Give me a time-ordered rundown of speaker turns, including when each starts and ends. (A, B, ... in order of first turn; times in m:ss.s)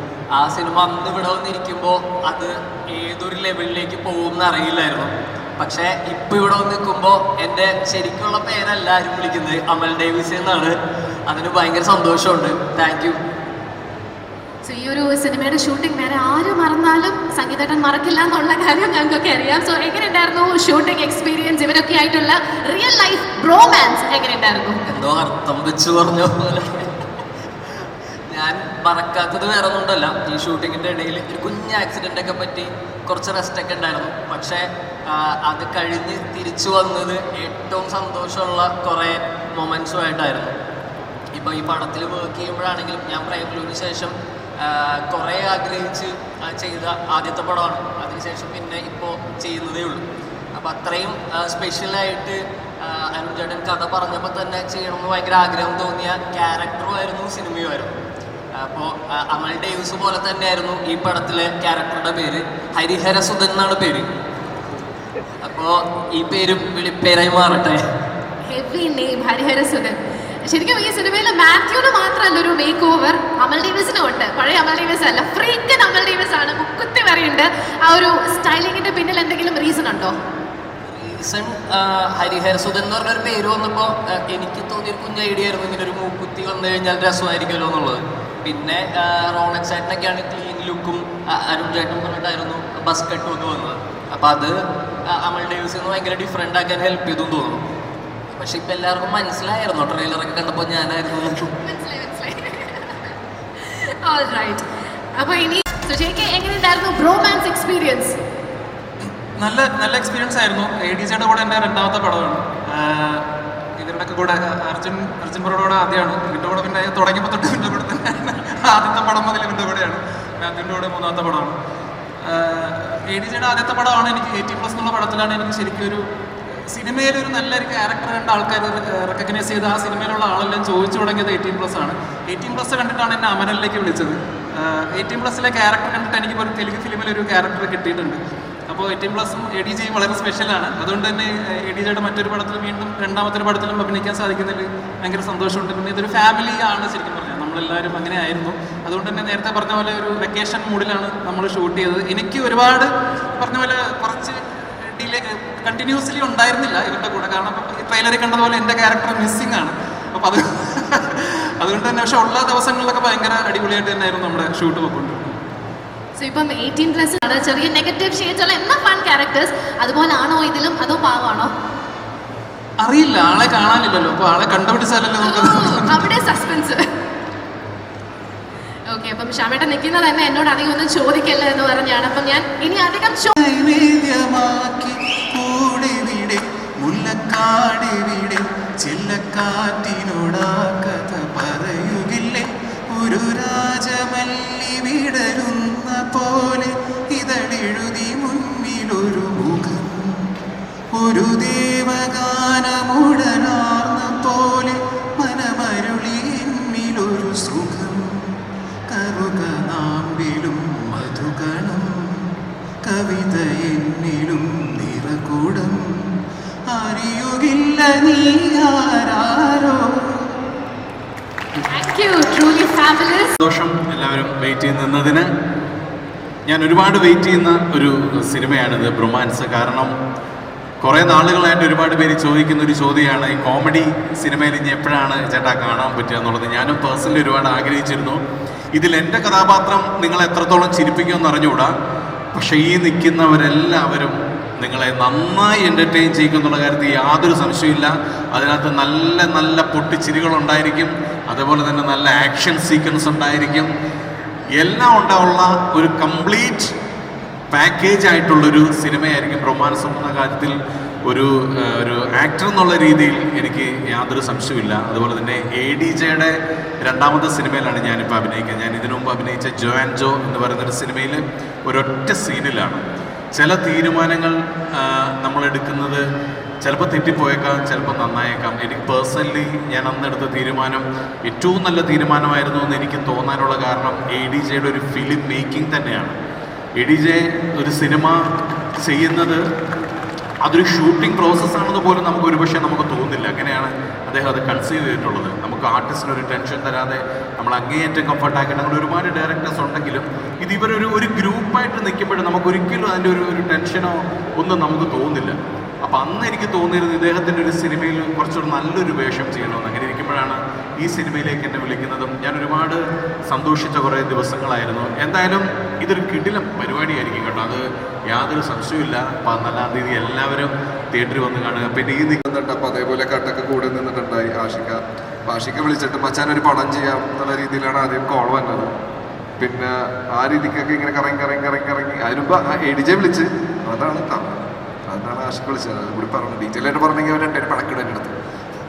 0:00.3-0:13.2 A
0:14.6-0:24.8 B
0:24.9-0:26.9 A
0:28.3-0:40.5 A
0:41.4-0:50.0 A
0:50.5-0:57.9 A
0:58.6-1:04.1 A
1:05.4-1:07.8 A
1:08.5-1:20.2 B
1:20.9-1:34.6 A
1:35.1-1:37.6 A
1:38.3-1:41.5 A
1:41.6-1:44.6 B
1:45.2-1:48.2 B
1:49.4-1:53.2 C
1:53.8-2:01.6 C
2:02.2-2:06.0 C
2:06.7-2:45.4 C
2:46.2-2:51.5 B
2:52.8-2:56.0 C
2:55.2-2:56.8 B
2:58.9-3:03.3 B
3:03.4-3:20.1 D
3:21.0-3:28.2 D
3:28.9-3:32.1 D
3:32.9-3:35.9 D
3:36.7-3:39.8 D
3:41.7-3:43.4 B
3:43.4-3:45.3 E
3:46.5-3:49.9 E
3:50.8-3:58.2 E
3:58.8-4:01.7 E
4:02.3-4:13.7 E
4:14.6-4:16.7 E
4:17.5-4:20.6 E
4:21.1-4:32.8 E
4:33.3-4:36.0 E
4:36.6-4:46.2 E
4:46.8-4:48.2 E
4:48.8-4:49.4 E
4:50.4-5:22.2 E
5:22.3-5:28.7 F
5:29.4-5:38.1 F